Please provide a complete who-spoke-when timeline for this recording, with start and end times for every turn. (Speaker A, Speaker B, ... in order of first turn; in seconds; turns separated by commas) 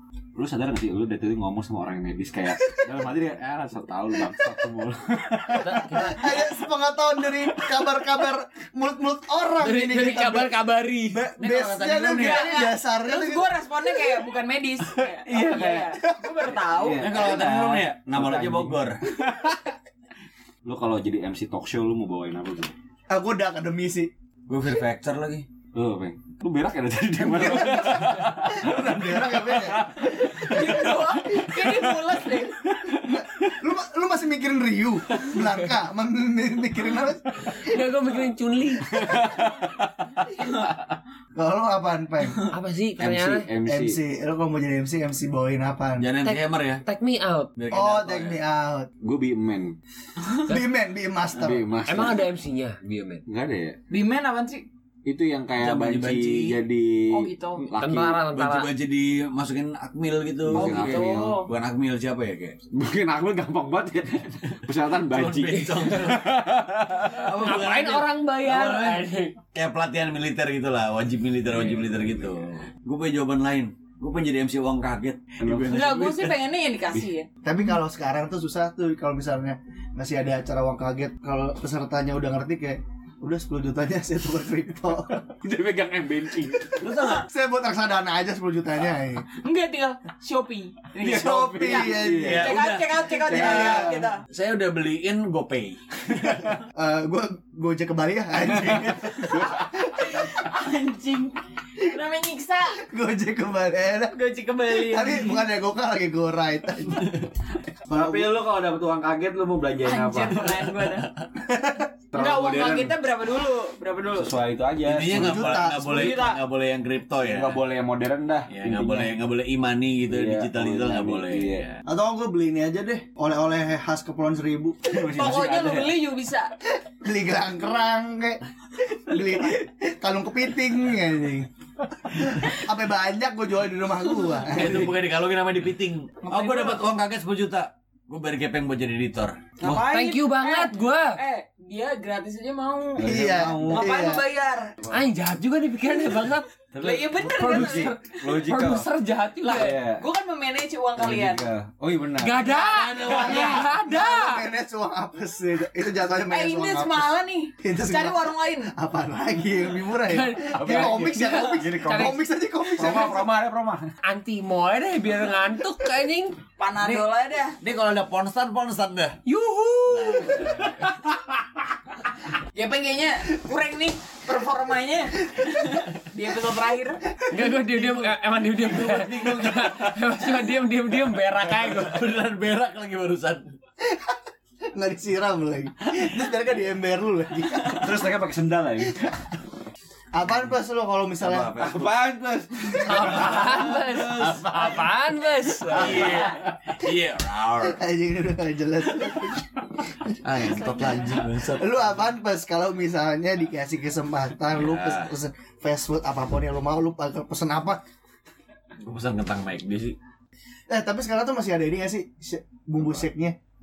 Speaker A: 0.3-6.2, Speaker B: 5.5-6.3, Speaker C: 5.8-10.6, Speaker B: 9.6-11.3, Speaker C: 11.1-13.5, Speaker D: 11.4-12.5, Speaker E: 12.1-17.2, Speaker A: 14.9-16.0, Speaker C: 16.1-16.5, Speaker A: 16.6-19.7, Speaker D: 16.9-19.0, Speaker A: 20.6-22.7, Speaker C: 23.1-24.1, Speaker D: 24.5-25.5, Speaker A: 25.7-32.1, Speaker C: 27.2-29.9, Speaker E: 30.2-32.6, Speaker A: 32.7-33.2, Speaker C: 33.0-37.8, Speaker B: 37.4-39.2, Speaker A: 38.9-39.9, Speaker C: 41.3-42.4, Speaker B: 42.5-43.5, Speaker A: 43.0-44.0, Speaker C: 43.6-46.0, Speaker D: 46.0-46.8, Speaker B: 46.2-47.5, Speaker D: 47.5-48.4, Speaker C: 47.7-48.9, Speaker A: 49.0-49.7, Speaker C: 50.5-51.7, Speaker A: 51.3-52.2, Speaker B: 51.9-53.2, Speaker A: 53.2-53.8, Speaker E: 53.9-54.6, Speaker A: 55.0-58.1, Speaker D: 55.6-56.6, Speaker E: 57.1-57.6, Speaker B: 57.7-58.7, Speaker D: 57.8-62.6, Speaker A: 60.5-61.1, Speaker E: 60.5-61.5, Speaker A: 62.7-67.3, Speaker D: 65.0-66.4, Speaker D: 67.0-76.3, Speaker B: 67.4-69.3, Speaker A: 71.5-72.2, Speaker A: 75.4-76.3, Speaker E: 75.7-77.3, Speaker C: 77.4-85.3, Speaker A: 85.3-86.8, Speaker D: 86.8-87.3, Speaker C: 87.2-89.2, Speaker E: 89.4-94.2, Speaker A: 91.0-92.5, Speaker C: 91.0-92.5, Speaker D: 92.2-95.8, Speaker C: 93.3-94.0, Speaker A: 96.2-96.5, Speaker C: 96.7-99.6, Speaker A: 98.5-99.7, Speaker E: 99.9-102.8, Speaker C: 102.8-104.2, Speaker E: 104.1-105.4, Speaker C: 104.7-107.1, Speaker C: 107.9-108.3, Speaker A: 107.9-110.7, Speaker E: 109.8-111.1, Speaker C: 111.4-111.9, Speaker A: 112.1-112.9, Speaker E: 112.1-114.4, Speaker A: 114.1-115.6, Speaker D: 114.8-117.6, Speaker C: 115.0-116.2, Speaker E: 115.8-116.4, Speaker A: 117.2-119.2, Speaker D: 118.5-121.6, Speaker A: 120.1-121.8, Speaker C: 121.8-125.0, Speaker A: 124.9-126.0, Speaker E: 125.0-126.5, Speaker C: 126.7-131.5, Speaker C: 132.1-134.9, Speaker D: 134.4-139.8, Speaker E: 136.2-136.9, Speaker E: 139.6-143.1, Speaker B: 139.8-141.2, Speaker A: 143.0-143.8, Speaker C: 143.0-144.2, Speaker D: 143.3-144.1, Speaker E: 143.7-144.7, Speaker B: 144.9-146.5, Speaker D: 146.8-147.9, Speaker E: 146.8-148.0, Speaker A: 146.8-148.9, Speaker B: 147.3-149.8, Speaker E: 149.4-151.5, Speaker A: 149.5-150.1, Speaker A: 151.0-152.5, Speaker B: 152.2-154.4, Speaker D: 152.4-153.7, Speaker C: 153.0-163.2, Speaker E: 156.3-158.7, Speaker B: 160.1-162.2, Speaker A: 160.5-162.2, Speaker A: 162.7-163.9, Speaker B: 164.0-166.3, Speaker E: 166.6-167.6, Speaker D: 167.6-169.2, Speaker E: 169.2-170.7, Speaker D: 169.9-170.8, Speaker A: 170.4-170.9, Speaker E: 172.5-177.0, Speaker B: 177.3-182.2, Speaker D: 177.7-180.0, Speaker D: 181.4-183.5, Speaker C: 183.8-184.2, Speaker C: 184.7-188.0, Speaker A: 187.7-189.0, Speaker C: 190.1-191.5, Speaker D: 191.2-192.2, Speaker A: 191.6-194.7, Speaker B: 192.7-196.3, Speaker D: 192.8-194.9, Speaker D: 195.7-197.8, Speaker A: 195.7-196.8, Speaker C: 197.6-200.2, Speaker D: 200.2-201.9, Speaker E: 200.6-201.2, Speaker C: 201.5-207.8, Speaker D: 204.5-205.1, Speaker D: 208.8-210.0, Speaker C: 210.7-213.3